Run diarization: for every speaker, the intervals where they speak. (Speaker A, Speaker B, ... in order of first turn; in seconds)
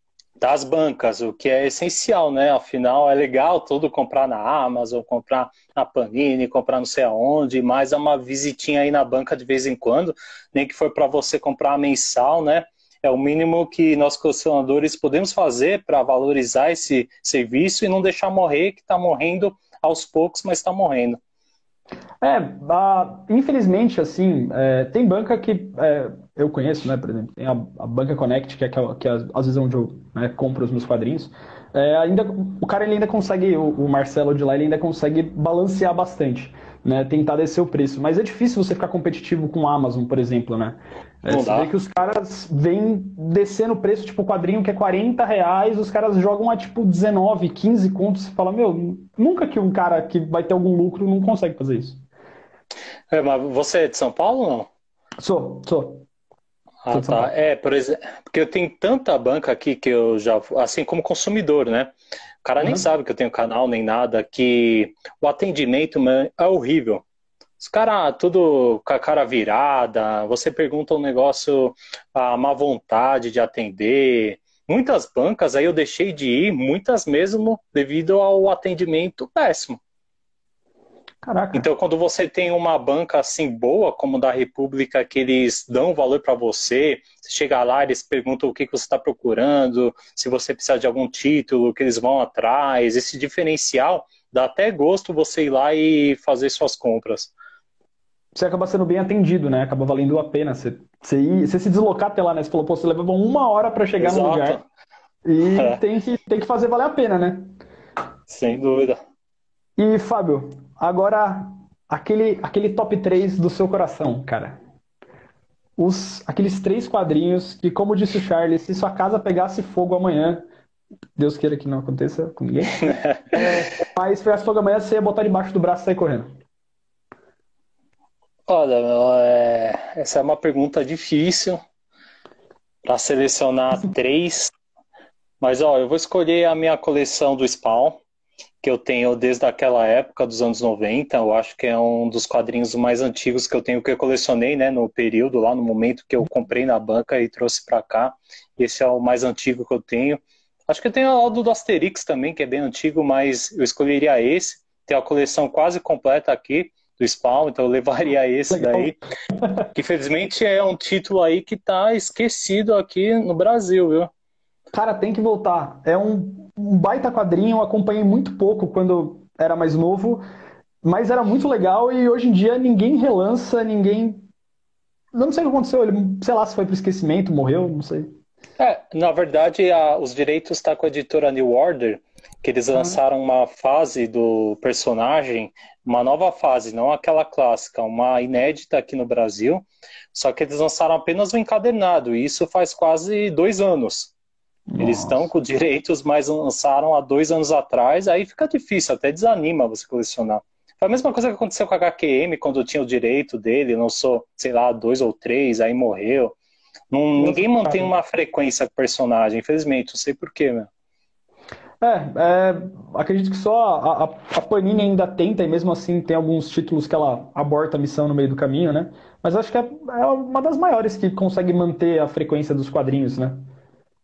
Speaker A: 0.4-21.2, 41.3-41.7, 53.1-54.7, 56.8-67.0, 67.6-79.8, 81.5-97.3, 104.0-104.6, 105.5-105.8, 108.3-109.0, 122.9-123.4, 128.5-131.6, 132.8-134.5, 135.4-138.0, 138.6-158.9, 159.7-164.1, 178.6-194.1, 194.8-206.4, 206.9-210.7
Speaker B: 22.2-52.0, 55.2-56.1, 56.9-57.3, 81.2-81.7, 98.3-104.6, 105.2-107.5, 109.8-114.6, 115.8-120.5, 121.2-126.3, 158.5-159.6, 164.7-170.2, 170.8-174.3, 175.1-178.1, 194.7-195.3, 207.2-207.9, 211.8-223.5